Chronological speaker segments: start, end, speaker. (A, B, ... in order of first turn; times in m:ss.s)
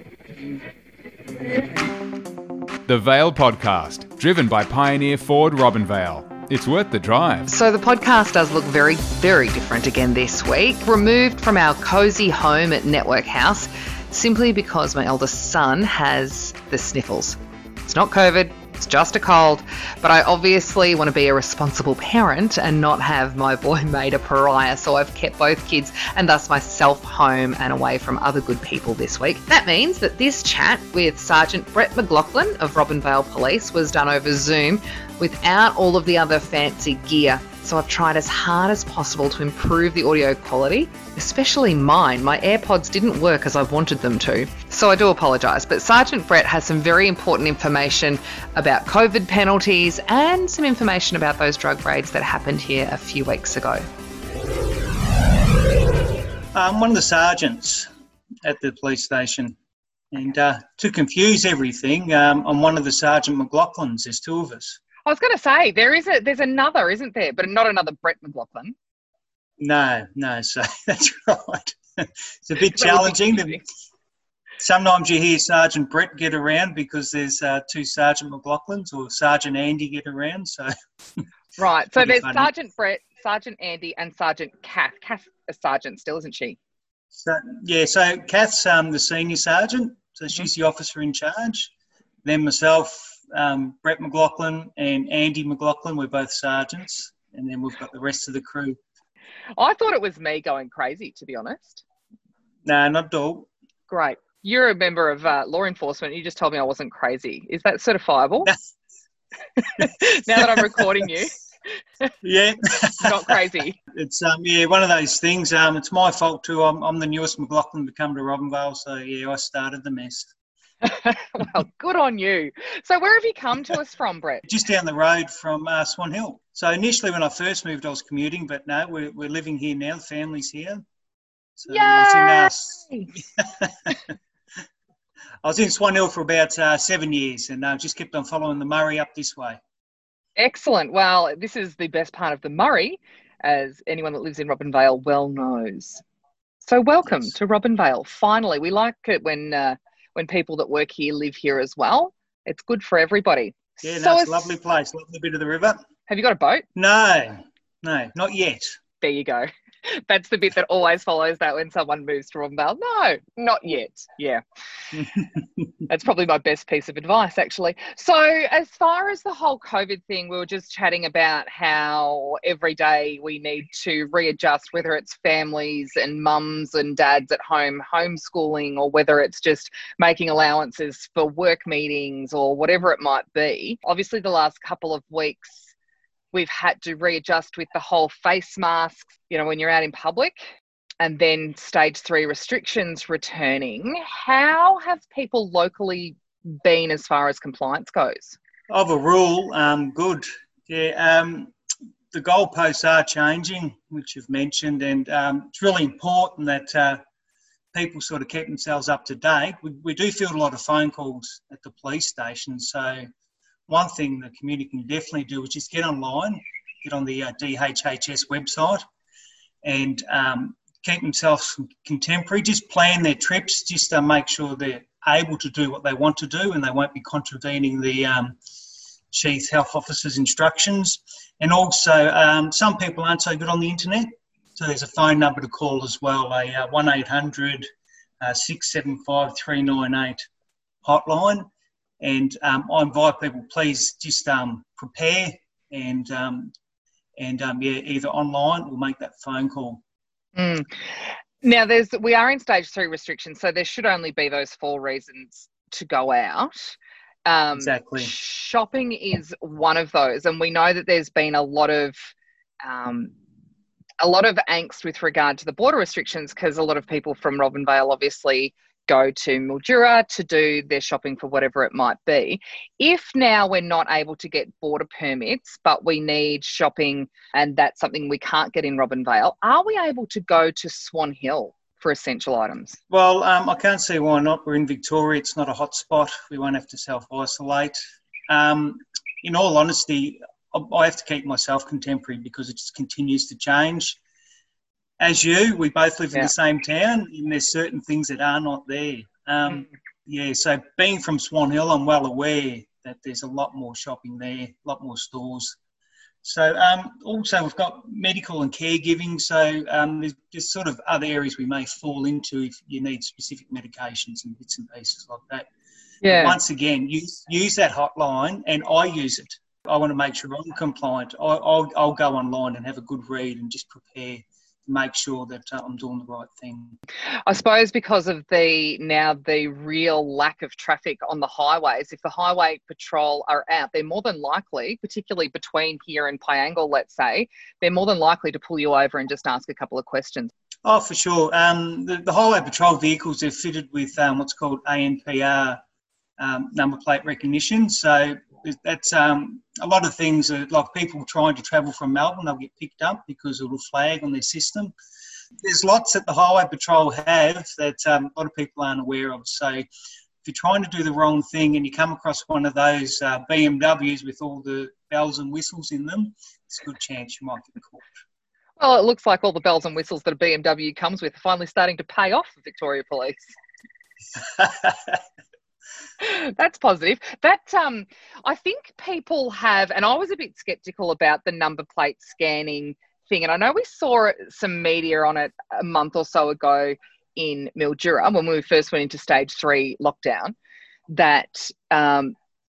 0:02.9-0:07.5 A
0:07.5-0:53.9 B
0:56.5-0:57.9 C
0:58.4-0:59.6 C
1:00.1-1:04.8 C
1:05.0-1:08.8 B
1:09.6-1:13.6 C
1:12.6-1:13.6 B
1:14.6-1:20.7 C
1:21.6-1:26.6 B
1:22.0-1:22.5 C
1:27.1-1:31.7 C
1:32.2-1:38.8 C
1:39.6-1:41.8 B
1:42.6-1:43.5 C
1:43.9-1:48.5 B
1:49.6-1:51.4 B
1:49.8-1:50.8 C
1:52.2-1:53.4 C
1:53.0-1:53.8 B
1:53.9-2:00.3 C
2:00.8-2:04.4 B
2:04.4-2:10.8 C
2:11.6-2:12.8 C
2:11.7-2:13.1 B
2:13.4-2:13.9 C
2:15.4-2:19.6 C
2:20.4-2:26.0 B
2:26.6-2:34.6 B
2:33.8-2:35.8 C
2:36.1-2:36.7 B
2:36.8-2:38.8 C
2:39.0-2:44.4 B
2:45.9-3:05.7 B
3:06.3-3:10.5 B
3:11.0-3:18.4 B
3:18.7-3:21.5 C
3:22.1-3:27.0 C
3:27.7-3:33.1 C
3:33.7-3:38.8 C
3:39.6-3:48.4 C
3:49.1-3:57.7 C
3:58.2-4:00.2 C
4:00.8-4:01.5 C
4:02.0-4:06.5 C
4:07.2-4:09.8 C
4:10.4-4:22.1 B
4:17.6-4:18.1 C
4:22.6-4:23.1 B
4:24.0-4:42.8 B
4:42.9-4:47.8 C
4:48.3-4:54.0 C
4:55.0-5:05.6 C
5:06.2-5:15.5 C
5:16.0-5:16.4 B
5:16.0-5:26.8 C
5:27.3-5:40.3 B
5:40.6-5:45.6 C
5:46.2-5:54.7 C
5:55.4-5:59.7 C
6:00.2-6:07.9 C
6:08.6-6:13.4 B
6:14.4-6:15.0 C
6:16.0-6:30.4 B
6:30.9-6:32.2 B